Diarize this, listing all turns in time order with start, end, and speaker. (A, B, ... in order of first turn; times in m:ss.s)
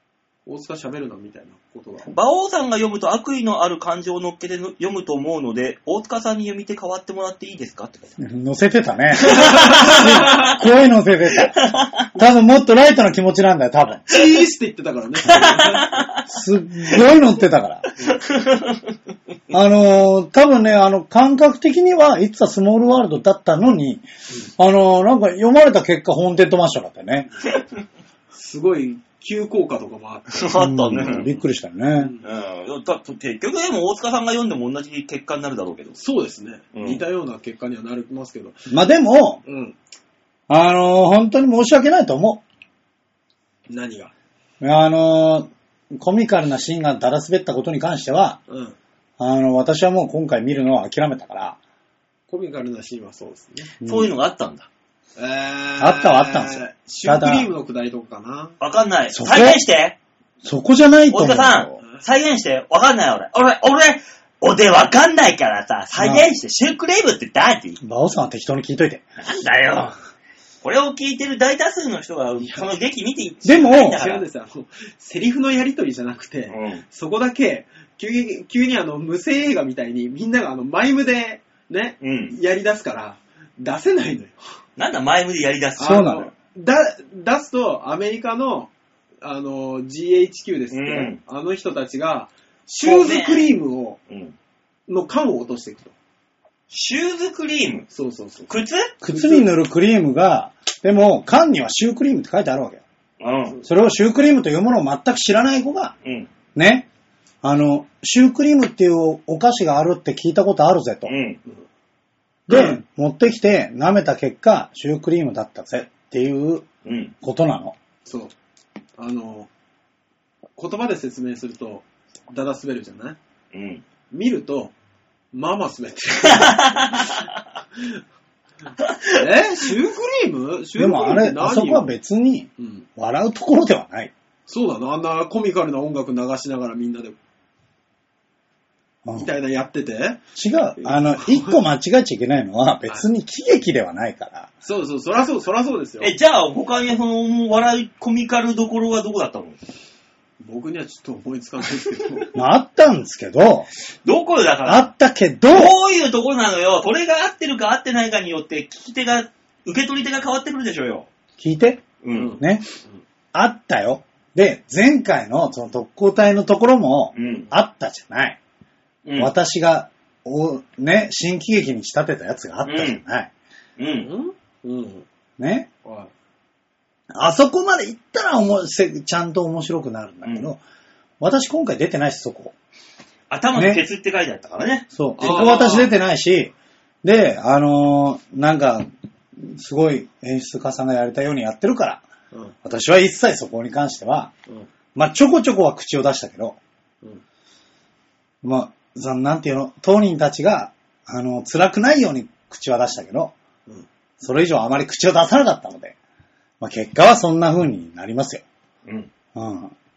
0:00.4-0:02.1 A
0:02.0-0:08.2 B
0:08.2-0:11.5 C
0:09.2-0:10.5 B
0:09.3-0:10.5 A
0:11.4-0:12.0 B
0:12.1-0:14.1 C
0:14.1-0:15.9 A
0:15.2-0:16.2 B
0:16.3-0:17.8 C
0:18.0-0:18.9 B
0:19.5-0:24.0 C
0:24.6-0:27.3 C
0:28.3-0:30.5 A
0:30.3-0:31.3 B
0:30.6-0:32.1 C
0:31.1-0:31.3 A
0:32.0-0:32.2 A
0:32.2-0:36.0 B
0:36.0-0:38.6 A
0:36.7-0:37.0 B
0:38.7-0:39.4 C
0:39.4-0:39.8 A
0:40.5-0:42.4 C
0:43.7-0:44.1 A
0:44.6-0:48.4 C
0:48.5-0:48.8 A
0:49.2-0:51.6 C
0:52.3-0:53.7 A
0:53.8-0:54.1 C
0:53.8-0:54.7 B
0:55.2-0:58.6 A
0:55.8-0:57.5 C
0:58.6-1:00.0 B
0:59.1-0:59.6 C
1:00.4-1:01.8 C
1:01.1-1:07.8 B
1:06.0-1:06.2 C
1:07.8-1:09.1 C
1:09.2-1:10.0 B
1:10.6-1:14.2 B
1:12.4-1:12.7 A
1:13.4-1:14.0 C
1:13.7-1:24.4 A
1:16.5-1:16.8 B
1:22.0-1:22.4 B
1:24.8-1:26.2 B
1:25.8-1:28.7 A
1:25.8-1:26.3 C
1:29.2-1:34.0 A
1:30.7-1:31.2 B
1:32.8-1:33.5 B
1:34.1-1:34.3 B
1:34.9-1:35.9 A
1:36.7-1:37.8 B
1:37.9-1:38.5 A
1:38.5-1:38.9 B
1:39.0-1:42.8 C
1:39.0-1:39.5 A
1:43.2-1:43.6 B
1:43.6-1:45.9 C
1:46.0-1:46.3 B
1:46.5-1:46.9 C
1:47.4-1:51.1 C
1:51.0-1:51.4 B
1:52.5-1:56.7 C
1:56.8-1:57.1 B
1:57.2-1:57.8 C
1:58.0-1:58.3 A
1:59.0-1:59.5 A
2:00.6-2:03.2 A
2:03.5-2:03.8 B
2:04.1-2:04.7 A
2:05.3-2:07.2 A
2:06.2-2:07.3 B
2:08.8-2:09.2 B
2:09.2-2:11.9 A
2:10.8-2:14.1 C
2:12.6-2:12.9 A
2:14.5-2:17.2 A
2:19.0-2:19.3 C
2:19.2-2:20.2 A
2:20.4-2:24.5 C
2:20.8-2:21.6 A
2:24.6-2:26.1 A
2:26.0-2:29.6 B
2:30.4-2:32.3 A
2:32.3-2:33.7 C
2:34.0-2:34.9 B
2:34.6-2:35.7 C
2:35.5-2:41.1 B
2:41.4-2:42.6 C
2:42.0-2:42.4 B
2:42.1-2:43.0 A
2:43.3-2:48.4 C
2:47.1-2:47.5 B
2:49.0-2:49.3 B
2:49.2-2:53.3 C
2:52.6-2:53.0 B
2:53.8-2:54.1 B
2:54.0-2:55.0 A
2:55.4-2:55.7 C
2:55.8-2:56.1 A
2:57.1-3:00.6 C
3:00.2-3:00.5 B
3:01.2-3:02.5 C
3:03.3-3:05.5 B
3:03.5-3:03.8 C
3:04.9-3:08.8 C
3:05.2-3:06.0 A
3:09.4-3:12.0 C
3:12.6-3:14.3 C
3:14.9-3:16.6 C
3:18.4-3:23.3 C
3:24.2-3:26.0 C
3:26.6-3:28.4 C
3:28.8-3:29.1 B
3:29.3-3:29.7 C